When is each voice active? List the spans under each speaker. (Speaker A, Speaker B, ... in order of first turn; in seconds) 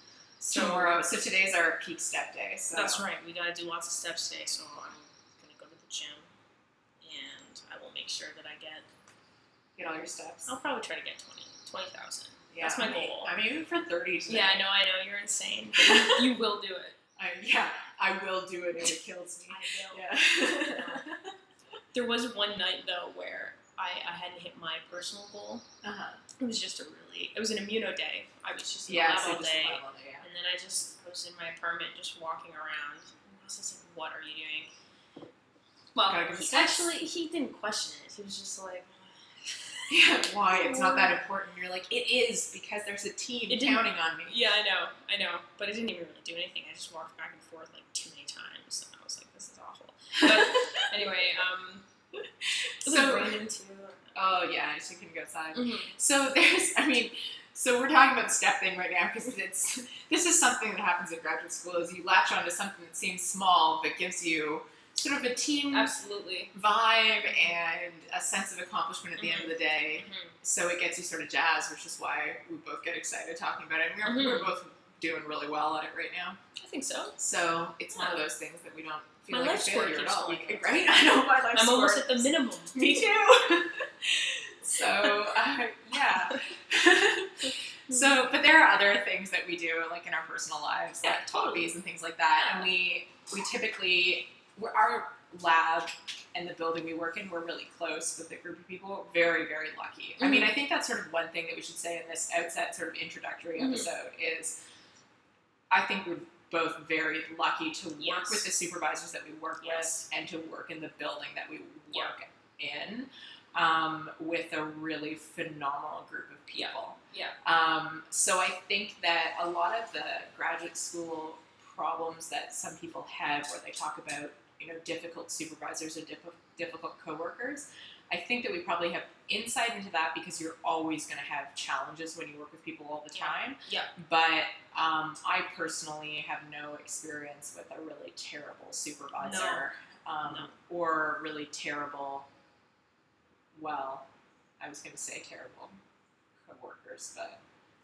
Speaker A: 0.4-3.0, 9.8-10.5, 12.5-14.6, 15.8-16.3, 17.2-21.3, 25.8-26.2, 28.9-30.2, 36.0-37.0, 39.9-44.4, 50.2-50.8, 52.4-53.4, 54.1-65.9, 66.5-76.4, 77.2-104.5, 105.7-142.3, 143.5-144.1, 144.6-145.7, 146.4-147.4
Speaker B: 0.5-0.9, 2.7-6.3, 7.0-8.9, 10.5-13.3, 14.3-17.0, 19.5-21.1, 21.9-25.6, 26.4-34.7, 35.9-39.9, 40.5-41.2, 43.5-51.8, 52.8-54.2, 55.5-55.9, 65.7-66.5, 69.2-70.3, 74.0-74.5, 76.6-77.2, 79.3-83.0, 91.0-91.7, 92.3-92.7, 100.2-100.5, 103.6-103.9, 108.0-108.5, 109.6-110.0, 116.5-117.4, 133.1-133.9, 139.2-139.6, 140.2-140.5